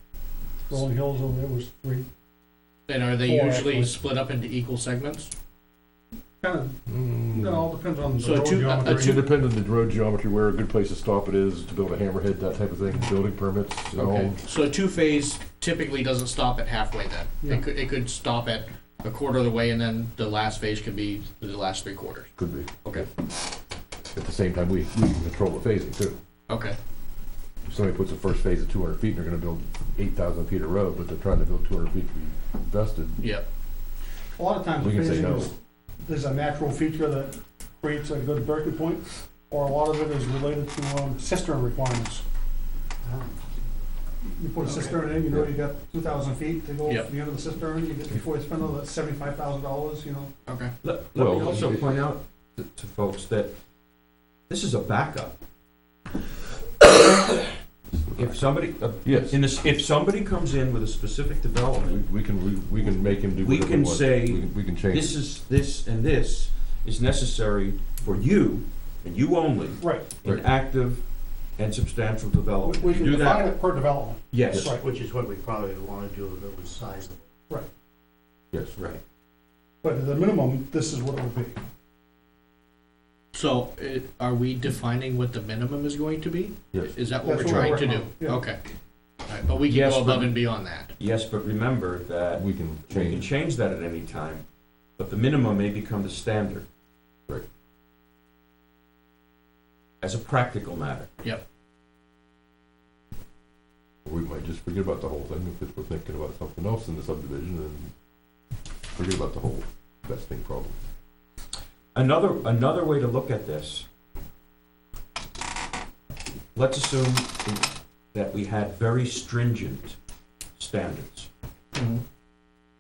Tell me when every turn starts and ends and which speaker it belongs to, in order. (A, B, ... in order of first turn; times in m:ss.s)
0:00.7-0:02.1 A
0:02.9-0:05.3 B
0:03.2-0:04.0 A
0:06.4-0:06.8 A
0:06.9-0:07.7 C
0:07.4-0:09.2 A
0:08.2-0:09.2 B
0:08.8-0:14.4 C
0:14.0-0:22.3 B
0:22.4-0:23.1 C
0:24.1-0:26.2 C
0:26.5-0:26.8 B
0:27.7-0:33.2 C
0:34.4-0:42.2 A
0:34.8-0:35.5 C
0:43.0-0:43.4 D
0:44.2-0:50.3 A
0:44.7-0:45.0 B
0:50.5-0:50.7 B
0:50.8-0:53.5 E
0:51.2-0:51.8 C
0:54.5-0:55.4 E
0:57.9-0:58.4 C
0:58.2-1:02.0 E
0:59.0-0:59.4 C
1:01.8-1:05.2 C
1:03.3-1:11.0 E
1:09.8-1:10.1 A
1:11.6-1:13.6 E
1:12.6-1:14.9 A
1:14.3-1:14.8 E
1:14.6-1:17.3 D
1:18.8-1:19.0 E
1:19.8-1:21.6 A
1:23.3-1:28.6 B
1:26.7-1:27.7 C
1:27.2-1:28.4 A
1:29.3-1:30.9 B
1:29.6-1:30.4 E
1:31.0-1:34.4 E
1:32.3-1:33.3 C
1:35.0-1:36.7 E
1:40.0-1:41.1 E
1:44.0-1:47.9 C
1:48.9-1:50.8 C
1:51.9-1:53.9 E
1:56.6-2:00.0 E
2:00.6-2:01.3 E
2:01.8-2:02.0 B